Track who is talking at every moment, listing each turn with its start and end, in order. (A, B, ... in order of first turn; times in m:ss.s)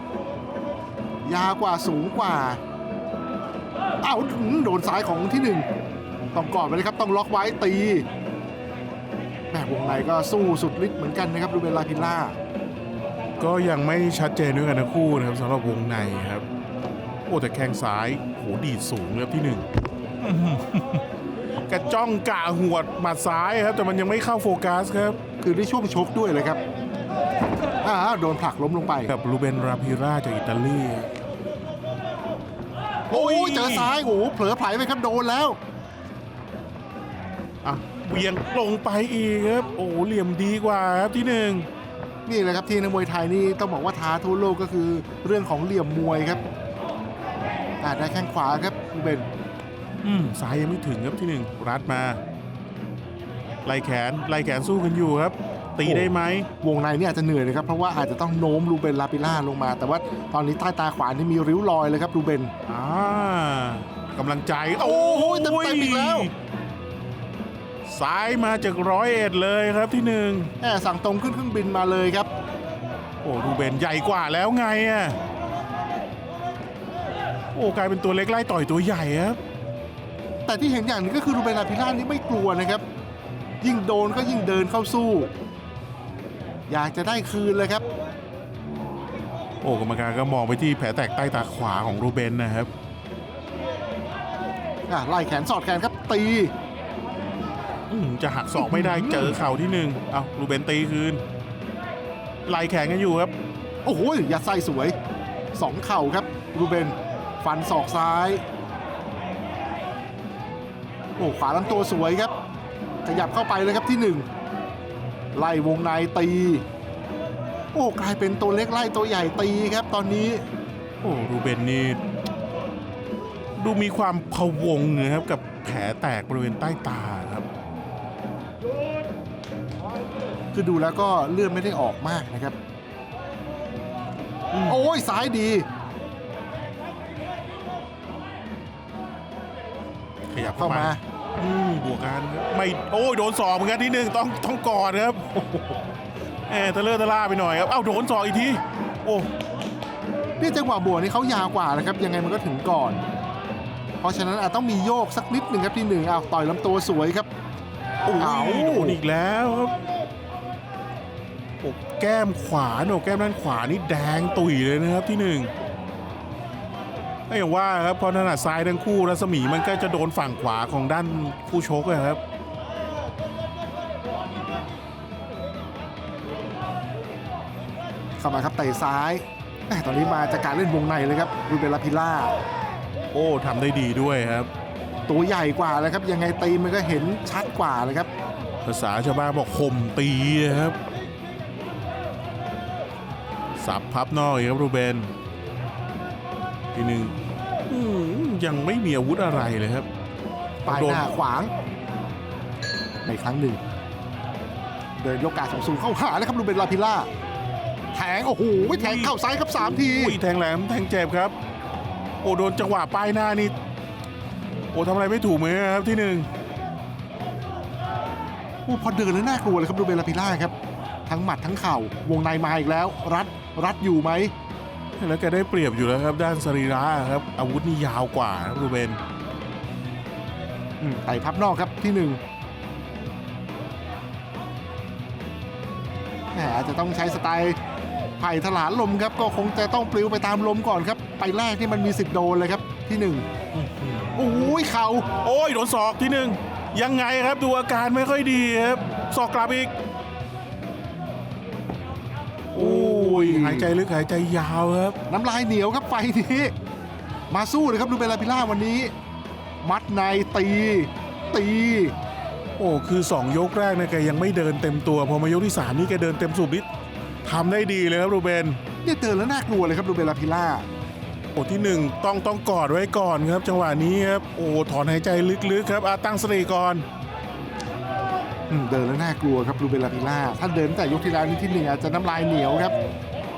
0:01.2-0:02.6 A
0:04.0-0:05.7 A
0:06.3-0:08.1 A
0:09.5-0:12.4 A
0:13.4-0:16.4 B
0:17.3-0:19.7 B
0:20.2-0:21.0 B
0:21.7-0:25.2 B
0:25.4-0:26.6 A
0:27.8-0:29.1 A
0:29.1-0:31.1 B
0:33.1-0:35.6 A
0:33.1-0:33.9 B
0:37.6-0:41.7 B
0:42.3-0:46.4 A
0:47.8-0:49.3 A
0:50.0-0:52.2 B
0:53.6-0:56.5 B
0:55.8-1:02.5 A
1:02.7-1:06.3 B
1:04.8-1:06.3 A
1:07.9-1:10.5 B
1:10.6-1:12.3 A
1:13.2-1:15.2 B
1:17.5-1:19.4 B
1:20.5-1:22.8 A
1:23.6-1:25.3 A
1:26.7-1:27.8 A
1:29.6-1:32.7 B
1:34.9-1:36.5 A
1:37.9-1:41.2 B
1:38.6-1:39.4 A
1:42.5-1:43.3 B
1:43.8-1:45.0 A
1:45.6-1:48.4 A
1:51.2-1:52.3 A
1:53.0-1:54.3 A
1:55.3-1:56.6 A
1:57.7-2:00.4 A
2:01.0-2:02.0 B
2:03.6-2:07.5 B
2:10.5-2:12.6 A
2:14.5-2:14.8 B
2:14.7-2:15.7 A
2:20.3-2:25.4 B
2:20.4-2:21.0 A
2:26.5-2:29.3 B
2:30.4-2:33.0 A
2:34.0-2:37.3 A
2:38.0-2:39.8 B
2:38.2-2:39.0 A
2:41.6-2:45.5 B
2:47.3-2:52.2 B
2:58.2-3:02.3 A
3:03.1-3:04.5 B
3:05.1-3:08.1 A
3:08.6-3:10.8 B
3:13.6-3:15.1 B
3:16.7-3:17.2 B
3:17.7-3:19.9 B
3:20.6-3:21.5 A
3:20.7-3:21.1 B
3:23.0-3:23.6 A
3:25.0-3:27.1 A
3:27.9-3:30.2 A
3:28.6-3:31.3 B
3:32.2-3:33.5 B
3:34.7-3:36.3 B
3:38.7-3:40.5 A
3:41.1-3:44.3 A
3:45.0-3:49.0 B
3:50.8-3:52.2 A
3:56.3-3:57.6 A
3:58.2-4:03.2 A
4:03.5-4:04.5 B
4:04.2-4:05.1 A
4:05.2-4:09.7 B
4:12.5-4:15.0 B
4:12.6-4:13.7 A
4:15.1-4:16.5 A
4:17.3-4:18.9 A
4:19.6-4:22.0 A
4:22.6-4:26.7 B
4:27.2-4:28.6 B
4:28.8-4:30.7 A
4:31.4-4:36.8 B
4:38.5-4:42.7 A